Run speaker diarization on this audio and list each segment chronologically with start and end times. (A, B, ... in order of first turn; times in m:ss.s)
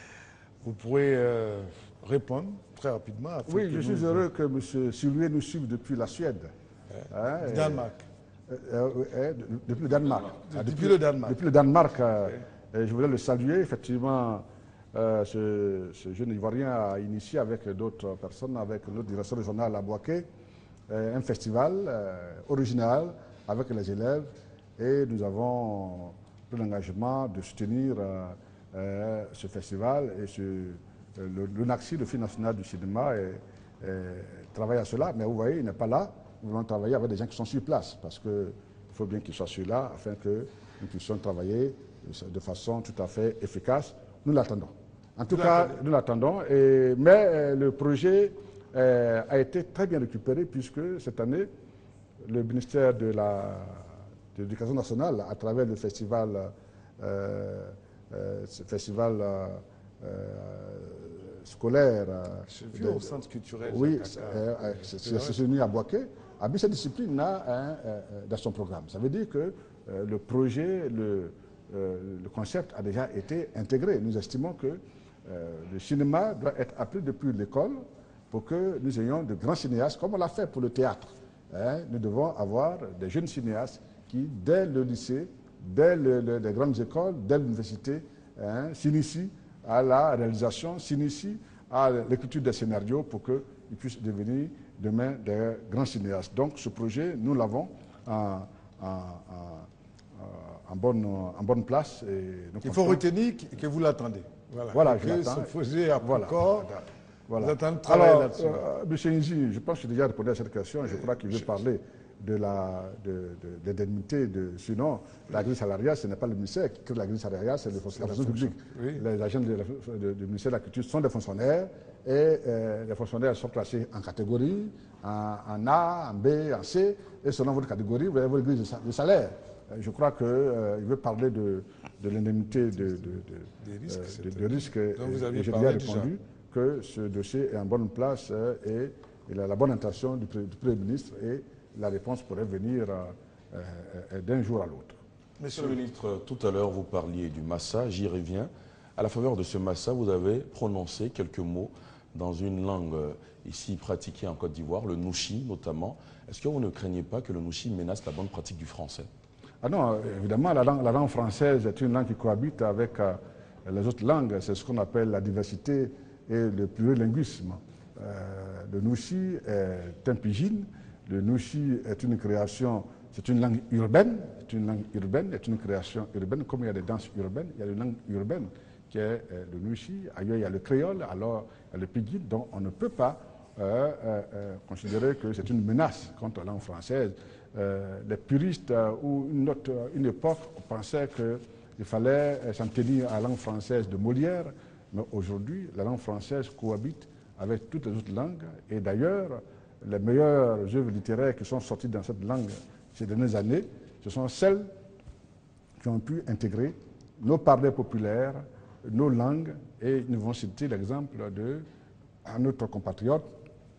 0:00.6-0:04.2 A
0:03.4-0:06.5 B
0:06.9-0:08.0 A
0:07.1-0:07.9 B
0:08.5-0:20.3 B
0:10.5-0:11.4 A
0:20.9-0:51.5 B
0:45.4-0:45.7 A
0:52.2-1:03.1 B
1:02.5-1:05.4 A
1:03.7-1:43.0 B
1:42.6-1:46.7 A
1:44.7-2:25.0 B
1:47.4-1:48.6 A
1:58.0-1:59.0 A
2:13.6-2:16.1 A
2:25.4-2:25.8 A
2:25.5-2:39.1 C
2:39.6-3:24.7 B
3:25.8-3:31.6 B
3:32.2-3:33.3 B